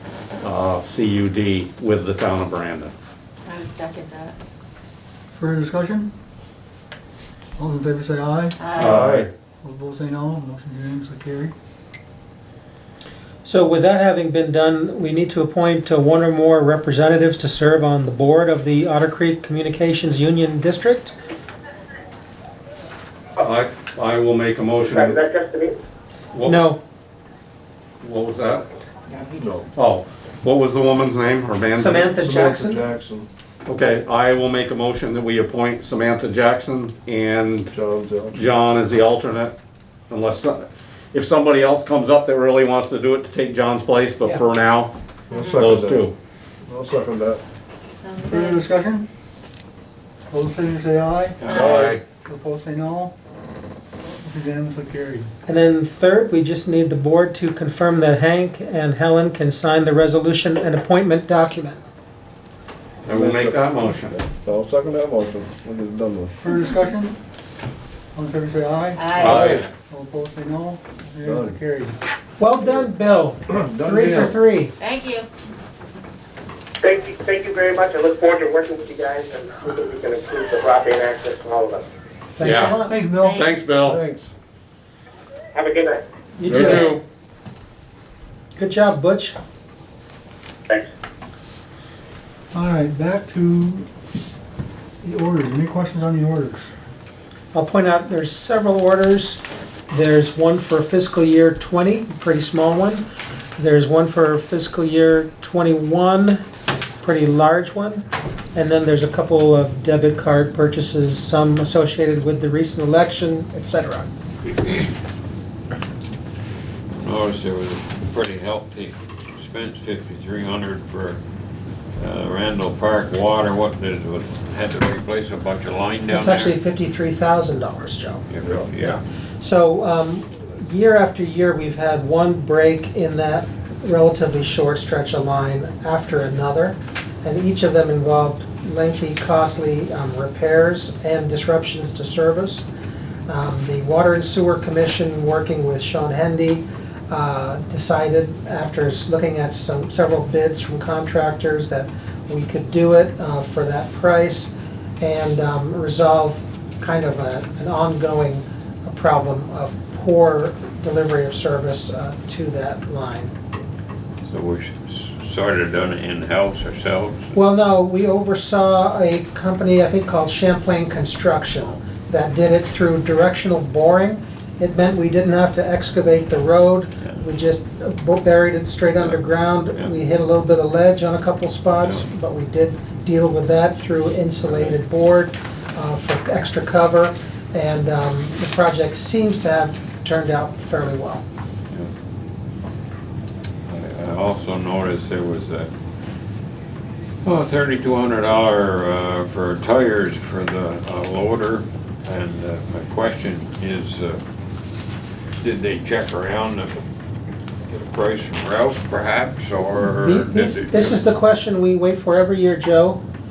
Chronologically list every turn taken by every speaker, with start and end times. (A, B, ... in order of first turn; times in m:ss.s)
0:00.4-0:02.9 A
0:03.4-0:04.4 B
0:05.4-0:06.1 C
0:07.6-0:08.5 C
0:08.6-0:09.0 B
0:08.7-0:09.3 A
0:08.8-0:09.3 D
0:09.6-0:11.5 C
0:13.4-0:21.1 E
0:23.4-0:25.2 A
0:24.8-0:25.8 F
0:26.3-0:26.6 A
0:26.4-0:26.8 E
0:28.0-0:28.6 A
0:29.1-0:29.4 B
0:29.3-0:29.6 D
0:29.8-0:32.1 A
0:31.8-0:32.8 E
0:32.1-0:33.3 D
0:33.6-0:37.7 A
0:37.7-0:38.4 D
0:38.3-0:39.5 A
0:40.1-0:44.9 A
0:45.3-0:46.0 D
0:45.3-0:45.7 B
0:45.5-0:46.1 A
0:46.7-0:47.4 D
0:48.0-0:48.9 B
0:48.3-0:49.0 C
0:50.3-0:51.4 C
0:51.4-0:52.0 B
0:51.5-0:52.0 D
0:51.6-0:52.0 A
0:52.2-0:53.1 C
0:54.2-0:55.3 C
0:55.4-1:01.8 E
1:03.0-1:04.1 A
1:03.1-1:06.4 D
1:06.5-1:07.2 C
1:08.2-1:09.1 C
1:08.9-1:09.5 B
1:09.1-1:09.6 A
1:09.9-1:11.9 C
1:11.2-1:11.6 D
1:12.4-1:14.7 E
1:13.5-1:14.4 D
1:14.8-1:15.3 B
1:16.8-1:21.8 F
1:22.4-1:23.0 E
1:22.4-1:24.0 A
1:22.5-1:23.6 B
1:22.9-1:23.3 C
1:23.8-1:24.3 D
1:25.5-1:26.0 F
1:26.4-1:27.0 E
1:26.4-1:26.8 D
1:28.6-1:29.4 E
1:32.5-1:33.9 C
1:35.0-1:36.7 C
1:37.5-1:43.0 E
1:43.6-1:46.4 E
1:47.0-1:54.1 E
1:56.9-2:01.2 G
2:02.0-2:06.5 G
2:06.1-2:22.6 E
2:08.3-2:09.0 G
2:23.3-2:43.3 E
2:44.2-2:47.4 G
2:47.3-3:11.2 E
2:59.0-2:59.9 G
3:04.4-3:04.7 G
3:13.7-3:15.7 G
3:17.2-3:24.2 G
3:25.4-3:26.8 G
3:27.7-3:31.0 G
3:29.8-3:33.0 E